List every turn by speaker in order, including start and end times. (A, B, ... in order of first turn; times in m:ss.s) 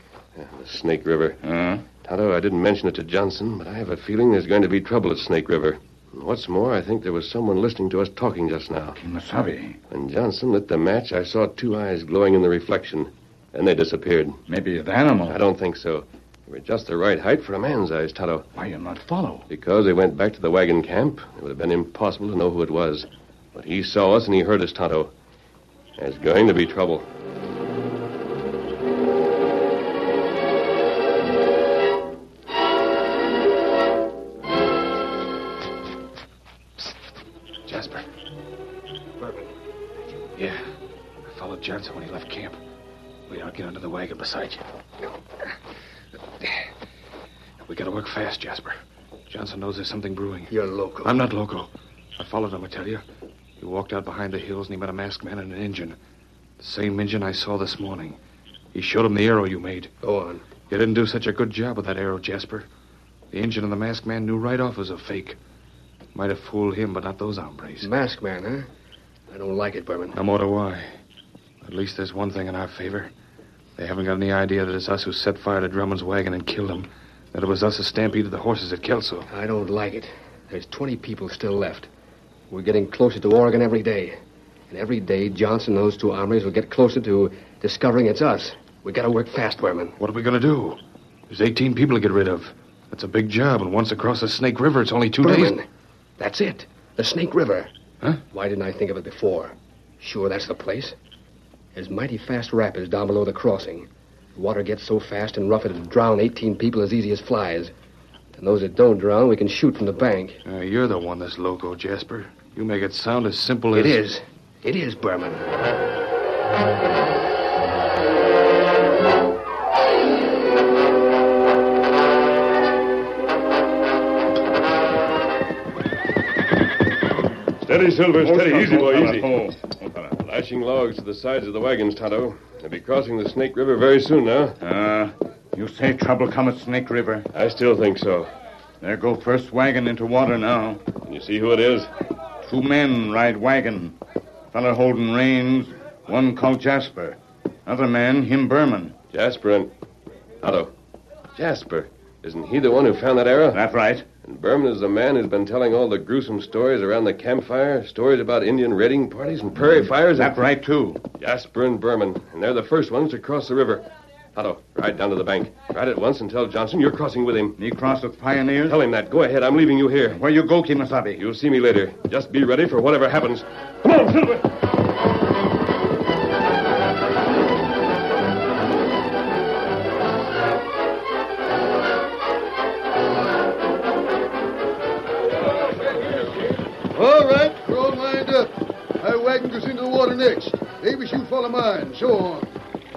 0:00.4-0:01.4 A
0:01.4-0:01.8 B
0:02.0-0:09.0 A
0:09.0-0:09.8 B
0:09.9-0:14.4 A
0:14.5-0:15.4 B
0:15.2-0:18.5 A
0:18.5-0:19.4 B
0:19.5-0:25.1 A
0:26.0-0:27.1 A
0:37.6-0:38.0 C
0:39.2-0:39.5 D
0:40.4-0:40.6 C
0:41.2-0:42.6 C
0:43.3-0:44.7 C
0:47.6-0:48.8 C
0:49.3-0:53.0 C
0:50.5-0:51.2 D
0:53.6-0:56.0 C
0:56.6-0:58.2 C
0:58.7-0:59.9 C
1:00.0-1:00.4 D
1:00.6-1:02.7 C
1:03.3-1:05.4 C
1:06.1-1:07.9 C
1:07.8-1:08.7 D
1:09.3-1:10.2 D
1:10.1-1:10.9 C
1:11.6-1:13.1 C
1:13.8-1:19.3 C
1:19.3-1:21.9 D
1:22.5-1:30.0 D
1:30.0-1:35.6 C
1:35.2-1:35.7 D
1:36.2-1:37.7 D
1:38.3-1:40.9 D
1:41.7-1:47.7 D
1:48.4-1:50.4 D
1:50.4-1:54.0 C
1:53.7-1:55.5 D
2:07.6-2:09.3 A
2:08.2-2:10.2 B
2:10.2-2:14.6 A
2:14.6-2:17.3 B
2:17.3-2:18.3 A
2:18.8-2:20.8 B
2:21.0-2:21.9 A
2:22.4-2:24.0 B
2:24.5-2:29.0 B
2:29.1-2:29.7 A
2:30.4-2:30.7 A
2:31.3-2:33.6 A
2:33.5-2:34.0 B
2:34.2-2:40.4 A
2:39.6-2:41.0 B
2:41.2-2:47.6 A
2:47.6-2:48.8 B
2:48.7-2:50.2 A
2:50.0-2:51.2 B
2:51.2-2:54.5 A
3:06.9-3:12.6 E